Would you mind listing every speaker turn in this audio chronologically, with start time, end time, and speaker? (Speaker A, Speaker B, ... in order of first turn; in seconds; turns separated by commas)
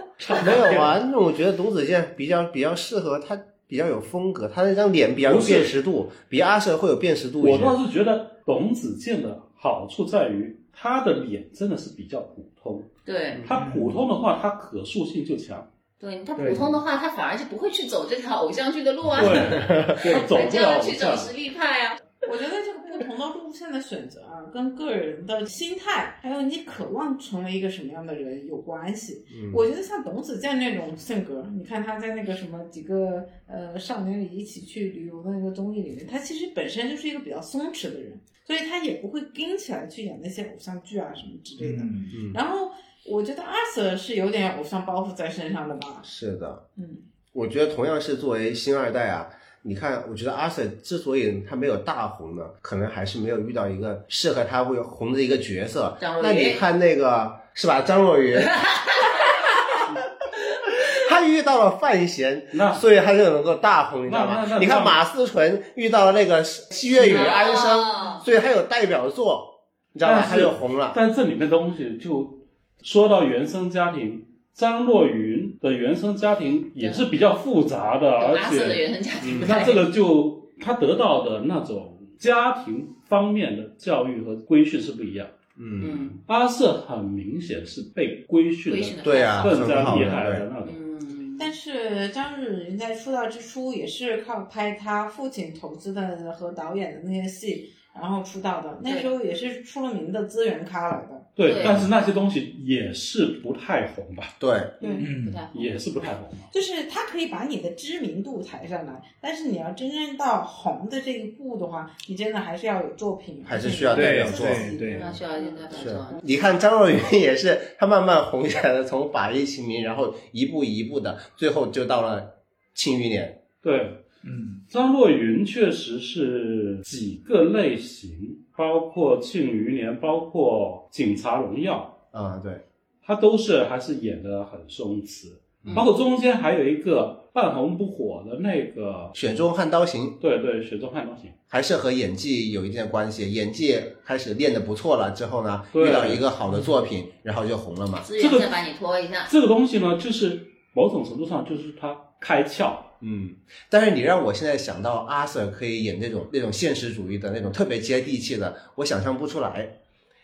Speaker A: 0.2-1.0, Speaker B: 0.3-7.8, Speaker C: 5.2-5.8, Speaker C: 7.4-12.9, Speaker D: 13.1-13.5, Speaker C: 13.4-15.7, Speaker A: 13.6-14.0, Speaker D: 16.0-22.0, Speaker A: 16.4-16.7, Speaker C: 19.1-21.3, Speaker B: 19.2-20.1, Speaker E: 22.2-46.1, Speaker B: 29.3-29.6, Speaker A: 41.6-42.2, Speaker B: 42.1-42.4, Speaker B: 46.0-46.6, Speaker E: 46.8-47.0, Speaker B: 47.3-58.6, Speaker D: 56.0-56.6, Speaker D: 58.4-59.8, Speaker B: 60.8-71.0, Speaker C: 62.5-62.8, Speaker C: 64.1-65.0, Speaker D: 66.9-68.2, Speaker C: 70.0-85.3, Speaker D: 76.8-77.0, Speaker D: 78.2-79.9, Speaker B: 79.2-79.5, Speaker B: 85.6-86.0, Speaker D: 85.8-86.2, Speaker C: 86.2-90.8, Speaker D: 88.7-90.0, Speaker B: 89.0-90.5, Speaker D: 90.6-91.5, Speaker E: 91.4-101.3, Speaker D: 98.8-99.1, Speaker C: 101.4-104.4, Speaker D: 101.4-101.9, Speaker B: 104.4-104.8, Speaker E: 104.8-105.1, Speaker D: 104.8-105.7, Speaker A: 105.0-105.4, Speaker C: 105.5-106.5, Speaker E: 106.5-115.7, Speaker B: 113.5-114.7, Speaker A: 113.9-115.2, Speaker D: 114.9-116.2, Speaker B: 115.7-123.4, Speaker C: 123.6-124.0, Speaker A: 124.2-124.6, Speaker C: 124.7-132.0, Speaker B: 132.1-132.6, Speaker C: 133.0-139.2, Speaker B: 139.2-140.2, Speaker C: 140.2-141.4, Speaker B: 141.5-148.1, Speaker C: 145.7-146.2, Speaker D: 148.1-149.3, Speaker C: 148.2-148.5, Speaker C: 149.3-152.9, Speaker B: 153.0-159.7